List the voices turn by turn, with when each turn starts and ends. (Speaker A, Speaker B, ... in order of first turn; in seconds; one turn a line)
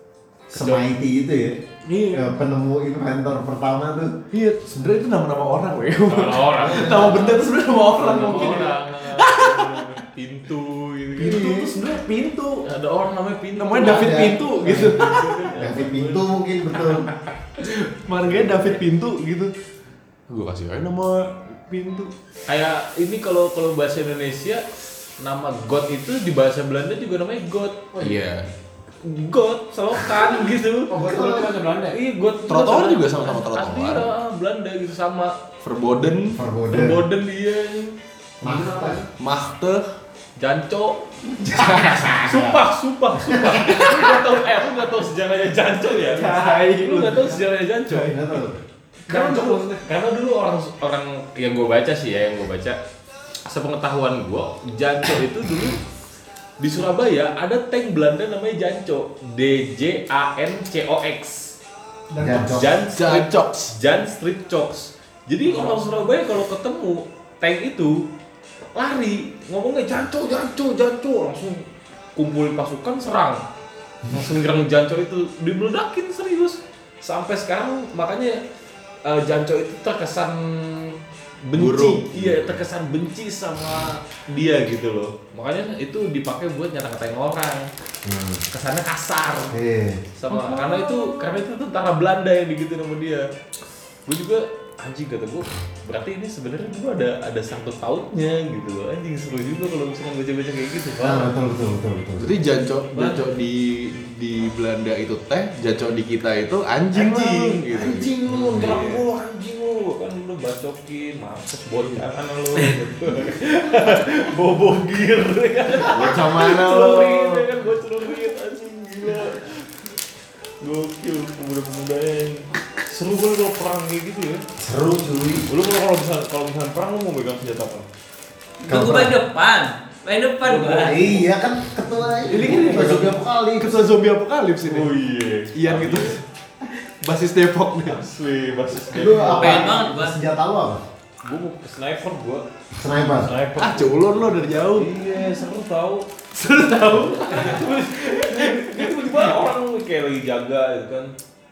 Speaker A: 0.5-4.2
Speaker B: 0.5-0.9
Speaker C: 1.8-2.3
Speaker C: 4.3-10.0
Speaker B: 6.0-11.7
Speaker A: 6.7-7.4
Speaker A: 8.0-8.6
Speaker C: 11.2-12.6
Speaker B: 12.6-17.4
Speaker C: 13.6-15.5
Speaker A: 13.8-14.9
Speaker A: 15.5-17.1
Speaker C: 17.6-19.5
Speaker B: 18.2-18.8
Speaker C: 20.3-22.1
Speaker B: 22.5-24.6
Speaker B: 25.2-27.9
Speaker C: 27.9-28.5
Speaker B: 29.0-30.9
Speaker D: 30.9-32.0
Speaker A: 31.1-31.5
Speaker B: 31.9-35.3
Speaker C: 32.5-34.1
Speaker C: 35.6-36.4
Speaker A: 36.3-37.0
Speaker B: 36.7-37.9
Speaker A: 38.4-39.0
Speaker D: 38.4-39.1
Speaker C: 39.2-39.8
Speaker B: 40.4-41.0
Speaker A: 41.3-42.6
Speaker C: 41.5-42.0
Speaker B: 42.1-48.1
Speaker A: 43.2-43.9
Speaker C: 46.0-48.4
Speaker A: 48.1-48.6
Speaker D: 49.1-49.8
Speaker B: 49.1-52.8
Speaker B: 53.4-55.8
Speaker B: 56.6-61.5
Speaker D: 62.1-62.5
Speaker A: 62.2-62.7
Speaker B: 62.4-68.0
Speaker C: 62.9-63.7
Speaker B: 68.7-71.6
Speaker B: 72.2-73.4
Speaker B: 74.1-78.4
Speaker B: 79.0-87.7
Speaker C: 81.5-82.5
Speaker A: 88.0-88.4
Speaker B: 88.5-89.5
Speaker A: 89.5-90.0
Speaker B: 90.2-93.2
Speaker C: 90.3-90.8
Speaker B: 94.1-101.3
Speaker A: 101.0-102.3
Speaker C: 102.2-109.0
Speaker B: 102.9-103.2
Speaker B: 106.9-119.9
Speaker A: 108.3-108.8
Speaker C: 115.9-116.7
Speaker A: 115.9-117.4
Speaker B: 120.6-124.4
Speaker A: 124.6-125.5
Speaker B: 125.5-127.8
Speaker E: 128.6-131.0
Speaker A: 128.7-129.1
Speaker B: 130.4-131.2
Speaker A: 130.8-134.0
Speaker B: 132.2-133.2
Speaker C: 132.3-134.9
Speaker B: 134.6-136.2
Speaker C: 135.5-136.2
Speaker C: 137.0-138.0
Speaker B: 137.8-139.7
Speaker A: 138.9-140.8
Speaker E: 139.3-140.2
Speaker B: 141.2-151.1
Speaker A: 142.8-143.3
Speaker C: 143.6-145.0
Speaker C: 146.9-149.4